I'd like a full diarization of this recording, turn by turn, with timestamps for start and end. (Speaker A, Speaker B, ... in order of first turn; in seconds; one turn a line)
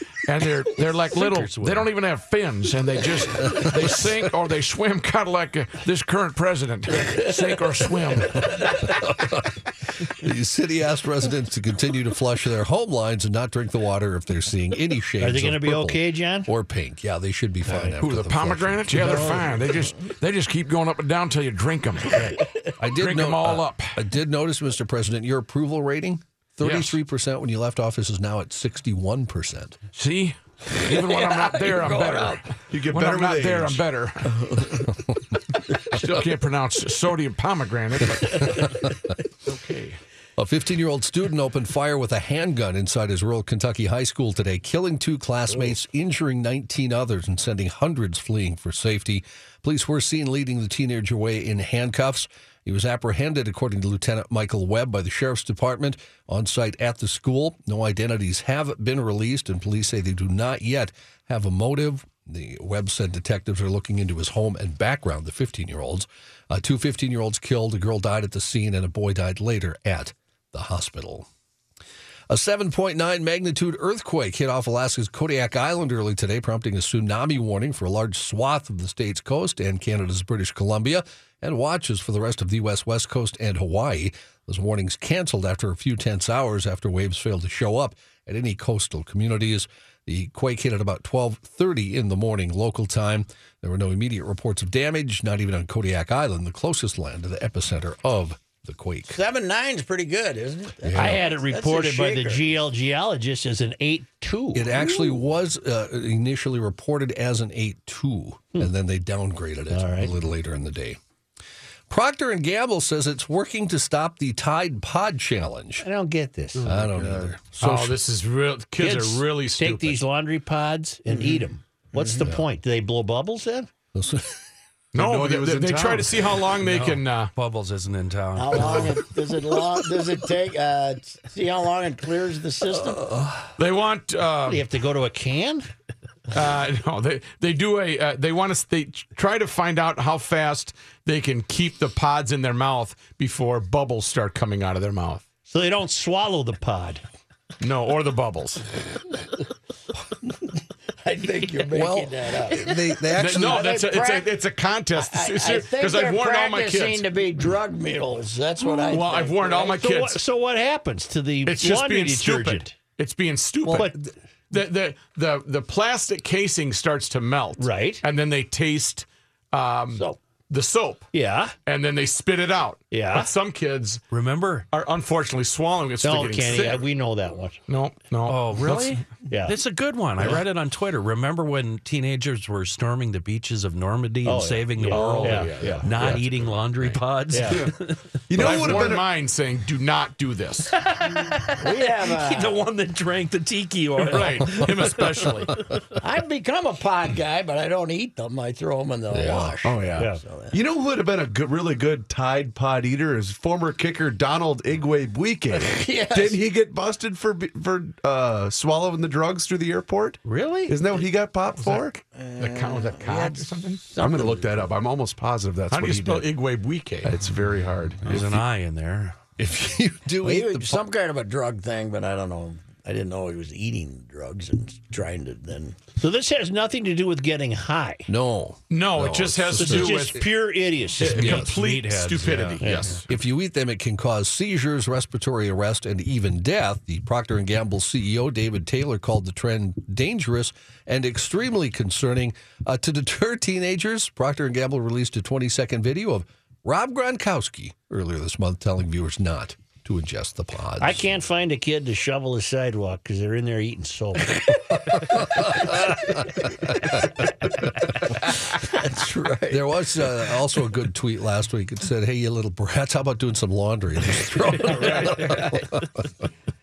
Speaker A: 0.3-8.9
Speaker B: 1.1-1.9
Speaker C: 3.5-3.9
Speaker C: 8.8-19.5
Speaker D: 15.2-16.5
Speaker D: 17.7-17.9
Speaker A: 17.9-24.0
Speaker D: 19.0-19.4
Speaker C: 22.8-29.8
Speaker A: 26.6-27.0
Speaker A: 29.9-34.6
Speaker E: 30.9-32.4
Speaker F: 32.7-33.8
Speaker E: 34.4-34.8
Speaker A: 35.9-38.8
Speaker C: 38.5-38.9
Speaker A: 39.5-40.0
Speaker C: 40.4-71.3
Speaker C: 72.3-99.2
Speaker E: 99.1-102.4
Speaker C: 100.8-101.3
Speaker D: 101.0-104.8
Speaker C: 104.5-111.0
Speaker D: 109.7-110.1
Speaker C: 111.9-115.9
Speaker D: 115.8-116.9
Speaker C: 116.6-118.0
Speaker A: 117.5-120.0
Speaker D: 118.8-123.7
Speaker E: 121.1-121.4
Speaker E: 122.0-122.3
Speaker C: 123.9-124.4
Speaker A: 124.9-127.3
Speaker F: 125.0-126.3
Speaker B: 126.6-129.0
Speaker E: 128.4-133.1
Speaker C: 132.9-133.5
Speaker A: 133.6-134.7
Speaker D: 134.5-135.7
Speaker A: 136.3-145.2
Speaker D: 145.5-147.0
Speaker A: 147.6-148.6
Speaker E: 151.0-154.3
Speaker C: 151.7-153.7
Speaker A: 153.1-157.1
Speaker E: 154.9-159.7
Speaker A: 158.7-160.2
Speaker D: 159.6-162.8
Speaker A: 161.4-164.0
Speaker D: 163.7-163.9
Speaker A: 164.5-171.1
Speaker D: 167.6-168.0
Speaker D: 171.1-171.6
Speaker A: 171.7-174.0
Speaker D: 172.9-173.3
Speaker B: 174.1-174.7
Speaker A: 174.7-176.9
Speaker D: 176.0-177.6
Speaker A: 177.7-179.0
Speaker B: 178.3-188.0
Speaker D: 179.3-179.6
Speaker D: 184.2-185.9
Speaker A: 184.8-186.3
Speaker D: 187.3-187.7
Speaker F: 187.5-187.8
Speaker F: 188.3-189.1
Speaker A: 188.3-190.7
Speaker B: 191.0-195.1
Speaker E: 191.6-192.6
Speaker A: 194.0-195.6
Speaker E: 196.0-200.6
Speaker C: 199.1-199.6
Speaker F: 199.6-212.0
Speaker E: 205.5-206.4
Speaker B: 210.2-210.7
Speaker A: 211.6-213.8
Speaker E: 212.2-214.7
Speaker F: 214.0-216.3
Speaker A: 215.7-217.2
Speaker F: 217.1-218.4
Speaker B: 218.1-219.2
Speaker C: 219.4-220.8
Speaker E: 220.2-225.8
Speaker D: 226.0-228.1
Speaker C: 228.1-230.3
Speaker A: 228.7-230.3
Speaker D: 229.6-231.4
Speaker A: 231.0-233.1
Speaker B: 231.1-233.0
Speaker C: 231.2-231.5
Speaker D: 232.6-233.0
Speaker C: 233.1-251.0
Speaker D: 250.8-256.1
Speaker C: 254.9-257.1
Speaker E: 258.6-259.7
Speaker C: 259.5-266.1